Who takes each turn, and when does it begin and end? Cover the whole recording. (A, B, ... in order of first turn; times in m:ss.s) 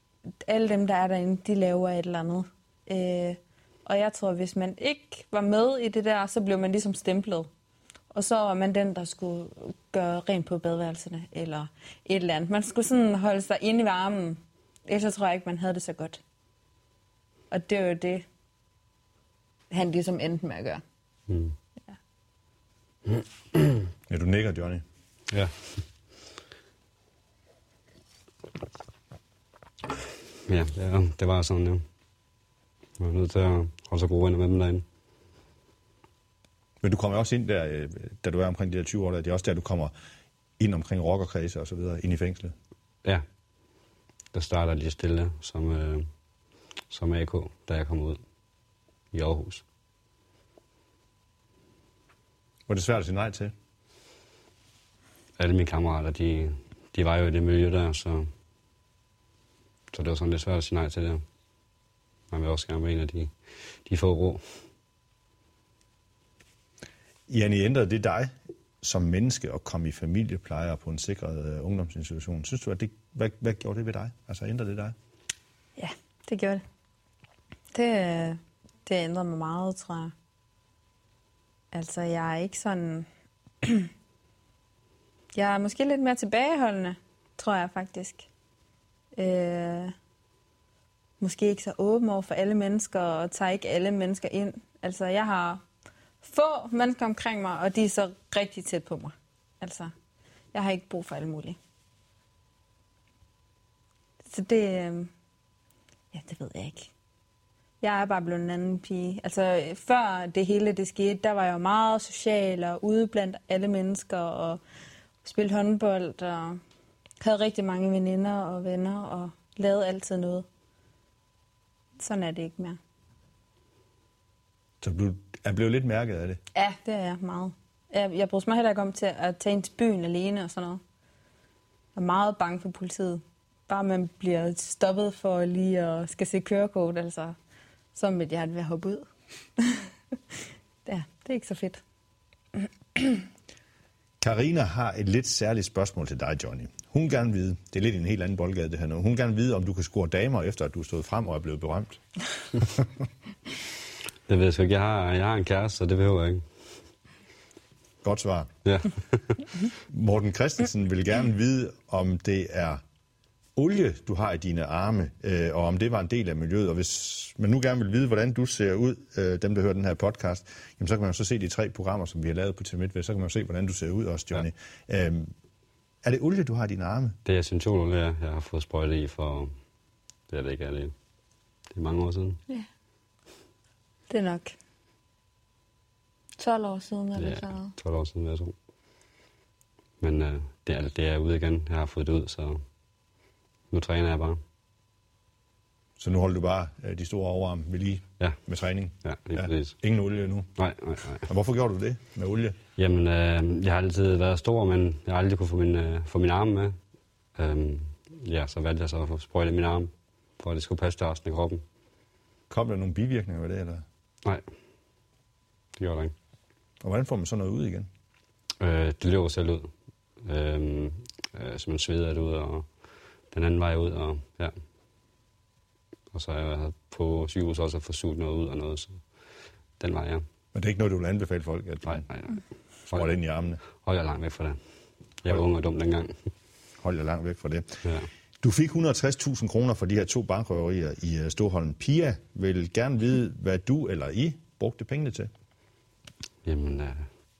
0:00.4-0:07.5 A
0:08.1-0:16.2 A
0:17.5-0:18.2 A
0:19.7-0:20.8 A
0:21.3-0:21.6 B
0:24.1-0:24.8 C
0:25.3-0:25.8 B
0:30.5-0:31.8 B
0:33.0-0:34.8 B
0:36.8-0:39.9 C
0:40.6-0:42.5 C
0:44.3-0:46.1 B
0:46.9-0:48.2 B
0:49.1-0:49.6 B
0:52.7-0:53.5 C
0:55.4-0:58.3 B
0:59.9-1:01.2 B
1:02.3-1:04.6 B
1:07.3-1:15.0 C
1:15.8-1:16.6 A
1:17.7-1:20.1 A
1:21.7-1:23.1 A
1:23.6-1:23.9 A
1:25.3-1:28.3 A
1:29.1-1:29.9 A
1:31.2-1:35.6 A
1:36.2-1:39.9 A
1:40.5-1:41.6 A
1:44.2-1:45.1 A
1:46.1-1:46.9 A
1:47.8-1:54.6 A
1:55.2-1:56.6 A
1:57.2-2:00.4 A
2:02.0-2:02.8 A
2:04.8-2:06.4 C
2:06.5-2:10.8 A
2:11.9-2:17.4 A
2:17.9-2:21.8 A
2:23.0-2:23.2 A
2:24.2-2:32.0 C
2:32.6-2:32.8 C
2:34.3-2:36.6 B
2:38.0-2:38.5 C
2:38.6-2:39.4 B
2:39.8-2:42.8 C
2:43.6-2:55.3 C
2:56.0-2:57.2 C
2:57.2-2:59.5 B
3:00.3-3:00.9 B
3:01.7-3:02.4 B
3:04.1-3:04.5 A
3:06.4-3:07.7 A
3:07.2-3:08.5 B
3:10.0-3:12.6 B
3:13.7-3:14.4 B
3:16.0-3:20.5 C
3:19.0-3:19.8 B
3:20.6-3:21.3 B
3:21.2-3:22.6 C
3:22.8-3:26.8 B
3:27.4-3:31.6 B
3:32.5-3:33.8 C
3:35.8-3:36.1 B
3:36.8-3:37.9 C
3:38.6-3:44.6 B
3:46.1-3:50.2 B
3:50.5-3:52.0 C
3:51.8-3:53.1 B
3:52.9-3:53.6 C
3:53.7-3:56.1 B
3:56.8-3:57.8 C
3:58.4-4:05.3 C
4:06.4-4:07.1 B